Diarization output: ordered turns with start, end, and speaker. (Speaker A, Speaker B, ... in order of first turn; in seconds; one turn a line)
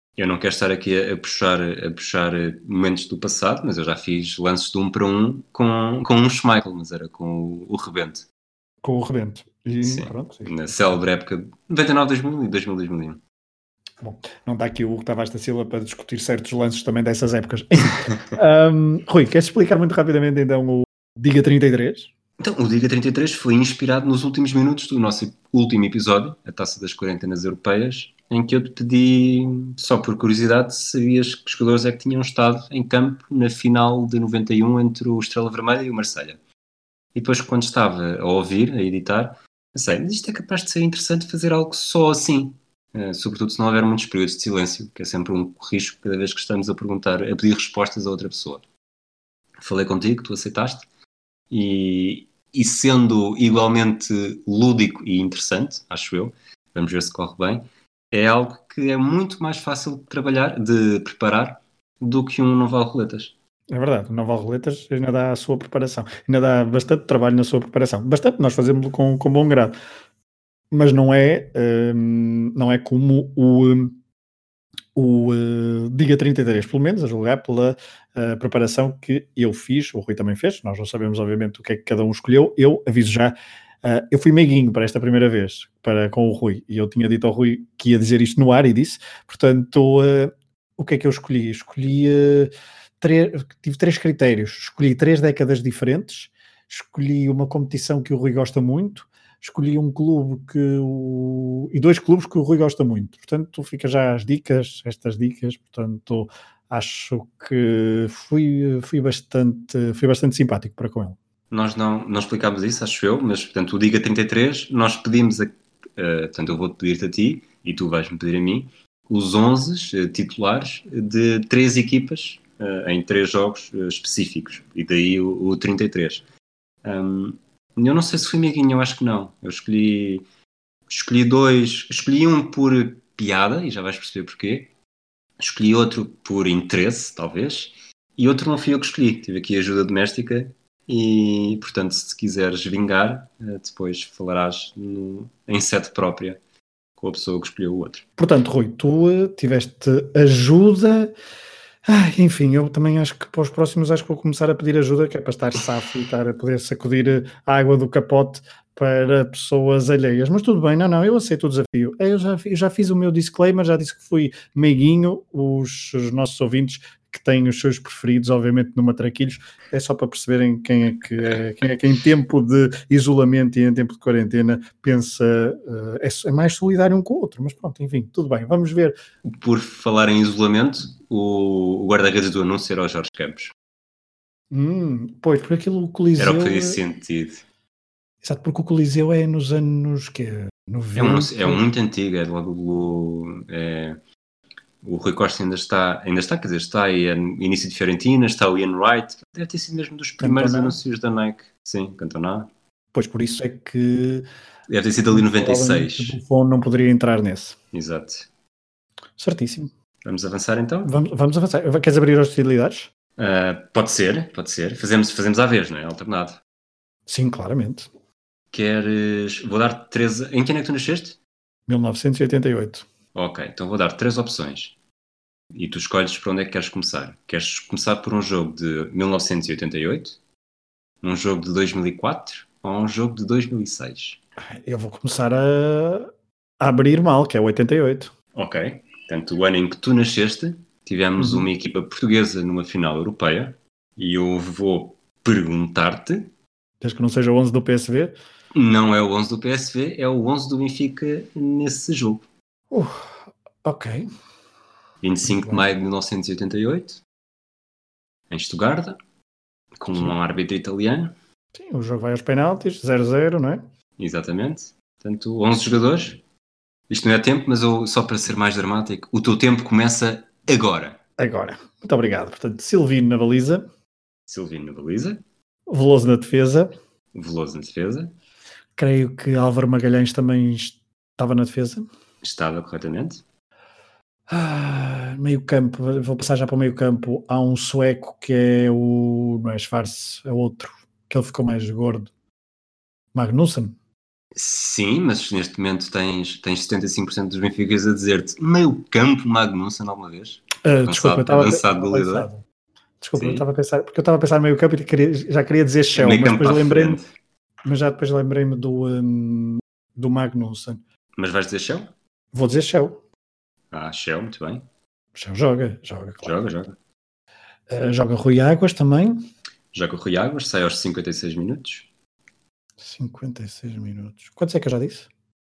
Speaker A: 0.2-8.3
Speaker B: 8.8-11.0
Speaker A: 9.8-13.2
Speaker B: 14.0-22.1
Speaker A: 22.4-36.4
Speaker A: 37.1-48.6
Speaker A: 49.6-50.9
Speaker A: 51.5-63.3
Speaker B: 63.7-69.8
Speaker B: 70.7-74.0
Speaker B: 74.9-111.2
Speaker A: 111.5-126.2
Speaker A: 126.8-130.2
Speaker A: 130.9-134.7
Speaker A: 135.4-146.4
Speaker A: 147.0-148.0
Speaker B: 148.2-151.1
Speaker B: 151.9-178.9
Speaker A: 179.2-183.5
Speaker B: 184.5-186.8
Speaker A: 186.2-187.4
Speaker B: 188.2-191.7
Speaker A: 190.9-194.0
Speaker A: 194.8-202.5
Speaker B: 200.2-200.8
Speaker B: 202.9-204.2
Speaker A: 204.7-206.2
Speaker B: 205.1-207.6
Speaker A: 207.7-208.3
Speaker B: 209.2-209.7
Speaker A: 210.0-210.9
Speaker B: 210.8-212.9
Speaker A: 213.2-216.4
Speaker B: 217.1-217.9
Speaker A: 218.5-221.2
Speaker B: 221.7-222.8
Speaker A: 223.1-224.8
Speaker A: 225.5-230.2
Speaker A: 231.0-234.2
Speaker B: 234.5-238.1
Speaker A: 238.3-246.3
Speaker B: 241.2-241.5
Speaker B: 246.8-248.1
Speaker A: 248.5-252.3
Speaker B: 252.7-254.1
Speaker A: 255.0-257.0
Speaker B: 255.2-255.7
Speaker A: 258.3-259.0
Speaker A: 259.8-261.1
Speaker B: 261.5-263.6
Speaker A: 264.0-266.2
Speaker A: 266.9-271.0
Speaker B: 271.2-273.6
Speaker A: 274.3-275.2
Speaker B: 275.7-276.8
Speaker A: 277.1-278.1
Speaker B: 278.8-281.9
Speaker A: 282.2-283.2
Speaker B: 284.3-292.1
Speaker B: 293.1-293.7
Speaker A: 294.3-302.3
Speaker B: 300.6-302.4
Speaker B: 303.0-307.0
Speaker A: 303.2-303.4
Speaker A: 305.9-307.1
Speaker B: 307.6-310.8
Speaker A: 311.2-311.9
Speaker B: 312.3-313.0
Speaker A: 313.7-314.6
Speaker B: 315.1-316.3
Speaker A: 316.2-316.8
Speaker B: 317.7-319.2
Speaker A: 319.7-321.9
Speaker B: 322.8-325.1